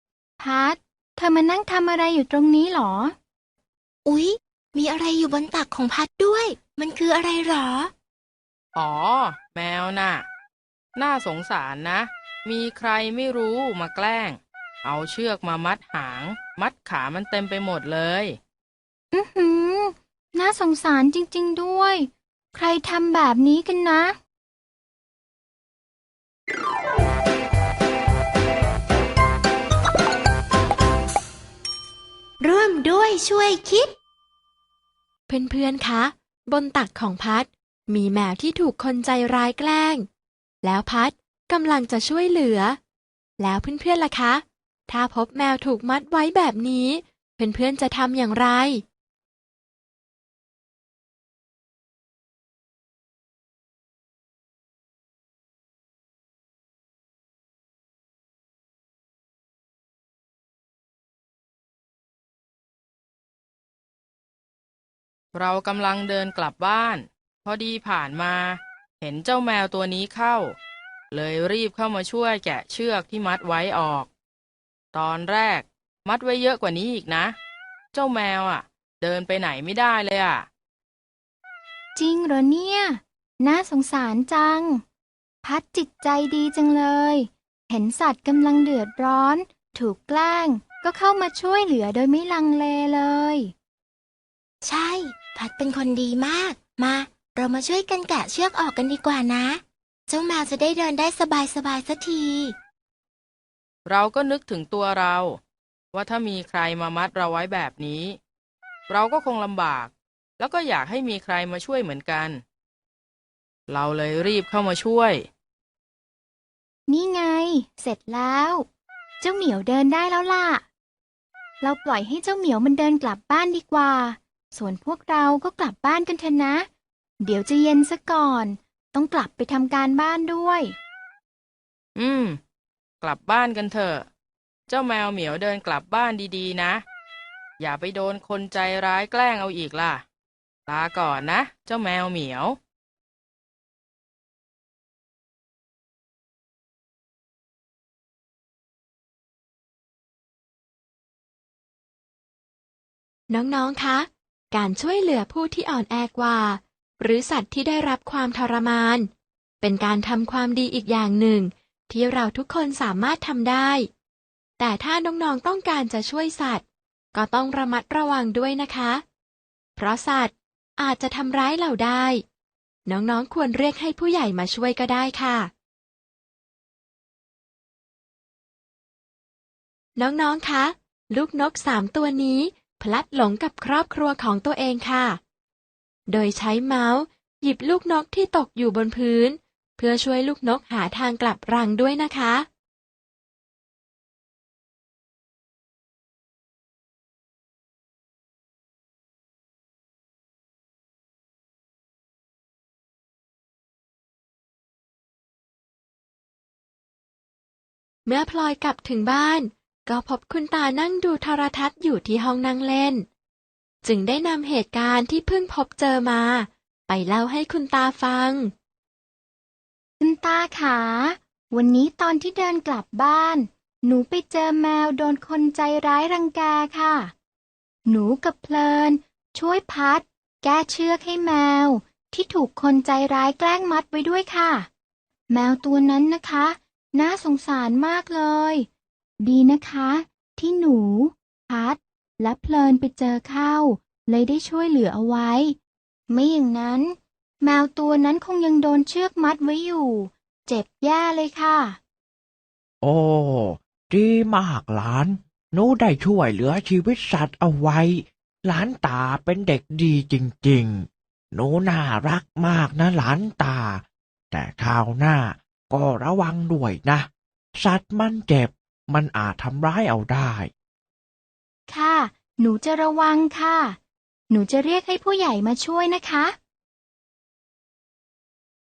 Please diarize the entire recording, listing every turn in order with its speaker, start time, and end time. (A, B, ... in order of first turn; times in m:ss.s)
0:00.4-0:03.1 A
0:04.0-0:07.9 B
0:08.7-0:10.2 C
0:10.9-0:18.4 C
0:19.1-0:24.2 A
0:32.4-0:33.9 B
0:35.3-0:40.0 D
0:40.6-0:42.8 D
0:43.4-0:48.8 D
1:05.3-1:10.5 C
1:11.1-1:14.1 C
1:14.9-1:17.3 C
1:17.9-1:20.4 C
1:21.9-1:24.8 A
1:25.4-1:33.5 A
1:34.6-1:42.5 B
1:43.8-1:45.4 C
1:45.9-1:48.2 C
1:48.9-1:52.4 C
1:53.7-1:55.2 C
1:56.9-1:58.6 A
1:59.2-2:00.6 A
2:01.6-2:06.7 A
2:07.2-2:10.8 A
2:12.0-2:12.4 C
2:13.0-2:14.0 C
2:14.7-2:16.8 C
2:17.6-2:20.0 C
2:20.7-2:22.6 C
2:33.3-2:39.1 D
2:39.6-2:43.9 D
2:44.6-2:49.0 D
2:49.8-2:52.2 D
2:52.8-2:55.5 D
3:00.0-3:05.2 D
3:06.1-3:12.5 D
3:28.0-3:33.0 D
3:33.8-3:38.5 D
3:40.0-3:47.1 A
3:47.8-3:54.7 A
3:55.3-3:58.7 A
3:59.2-4:05.6 A
4:06.1-4:11.8 A
4:12.8-4:30.5 E
4:31.7-4:33.8 A
4:34.3-4:36.4 A